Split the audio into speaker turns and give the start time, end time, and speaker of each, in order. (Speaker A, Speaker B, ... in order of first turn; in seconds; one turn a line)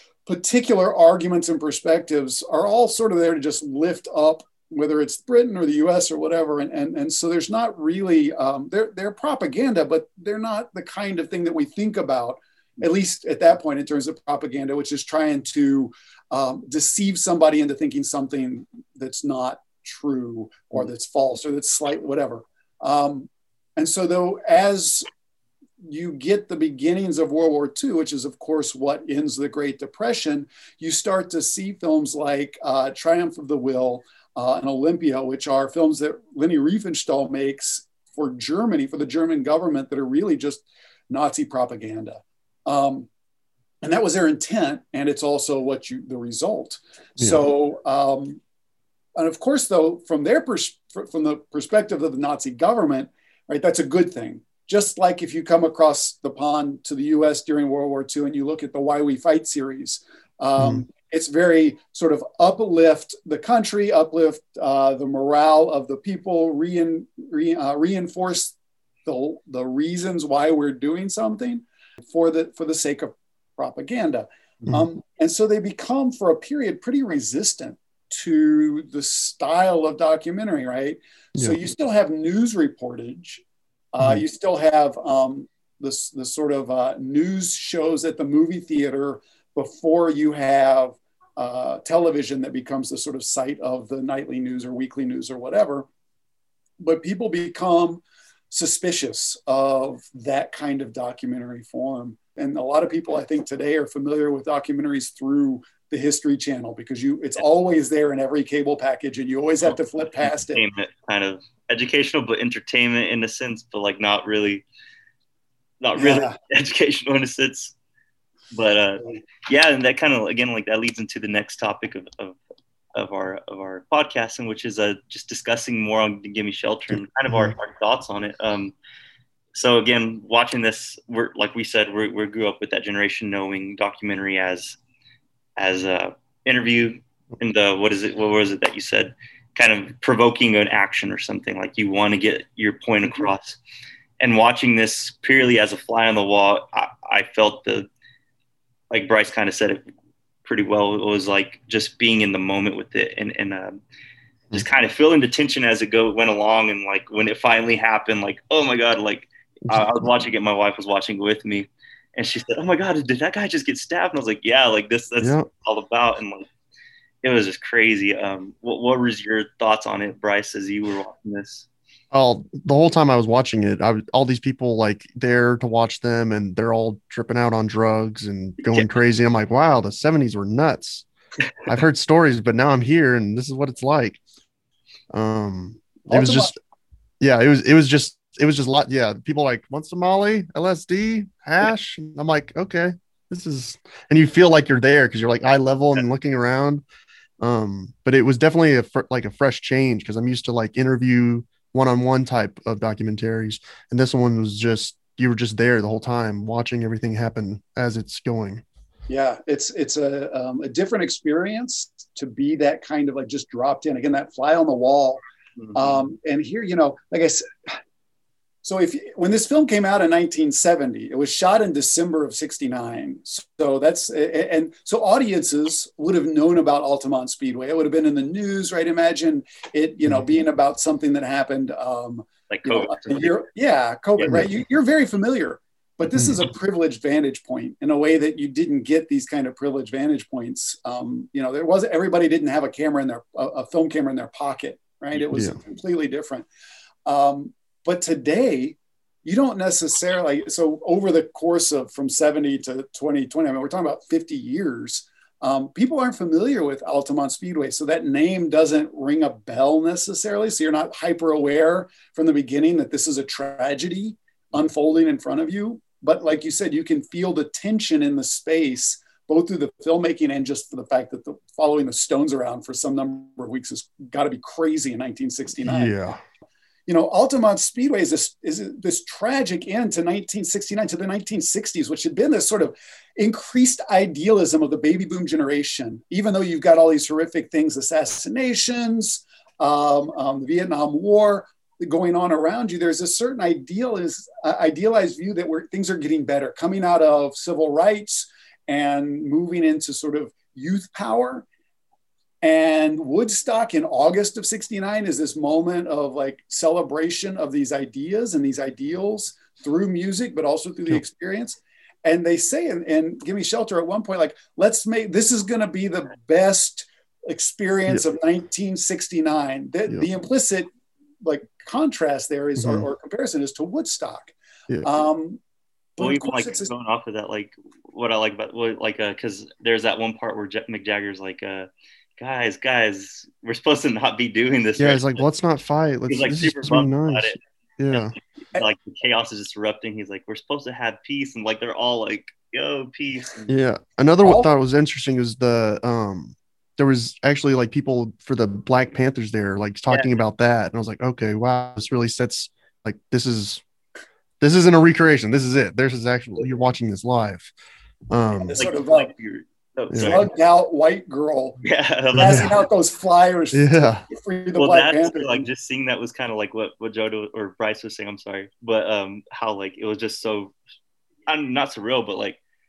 Speaker A: 0.2-25.1
Speaker A: 25.8-43.1
Speaker A: 43.8-48.4
Speaker A: 49.1-68.5
Speaker B: 60.6-60.8
Speaker A: 69.0-95.9
Speaker A: 96.8-110.6
Speaker C: 109.7-114.7
Speaker C: 115.8-117.7
Speaker A: 116.0-116.3
Speaker C: 118.5-122.4
Speaker C: 122.9-128.7
Speaker B: 126.9-127.5
Speaker C: 129.5-134.8
Speaker C: 135.6-143.6
Speaker C: 144.2-147.9
Speaker C: 148.9-149.8
Speaker C: 150.4-153.8
Speaker C: 154.5-166.5
Speaker B: 159.7-160.0
Speaker B: 165.2-165.5
Speaker C: 167.2-171.7
Speaker B: 172.1-181.1
Speaker B: 181.6-184.2
Speaker B: 185.1-186.6
Speaker A: 186.1-186.5
Speaker B: 187.2-196.8
Speaker B: 197.4-208.6
Speaker A: 209.1-215.2
Speaker C: 215.6-216.0
Speaker A: 215.7-217.8
Speaker A: 218.6-246.4
Speaker C: 232.5-233.4
Speaker B: 236.2-236.4
Speaker B: 245.3-245.6
Speaker A: 247.1-275.9
Speaker B: 275.6-276.2
Speaker A: 276.9-301.4
Speaker A: 302.4-320.7
Speaker A: 321.2-325.4
Speaker B: 322.6-322.9
Speaker A: 326.0-326.7
Speaker C: 326.0-335.2
Speaker B: 334.8-338.1
Speaker C: 336.1-343.5
Speaker B: 343.5-353.6
Speaker A: 344.2-344.5
Speaker C: 349.9-350.1
Speaker B: 354.4-357.5
Speaker B: 358.1-358.6
Speaker A: 358.3-359.1
Speaker C: 358.6-360.3
Speaker B: 359.9-360.2
Speaker A: 360.0-361.6
Speaker C: 361.6-362.6
Speaker B: 362.1-362.6
Speaker A: 362.1-365.5
Speaker B: 363.5-364.0
Speaker C: 364.6-370.5
Speaker C: 371.3-372.4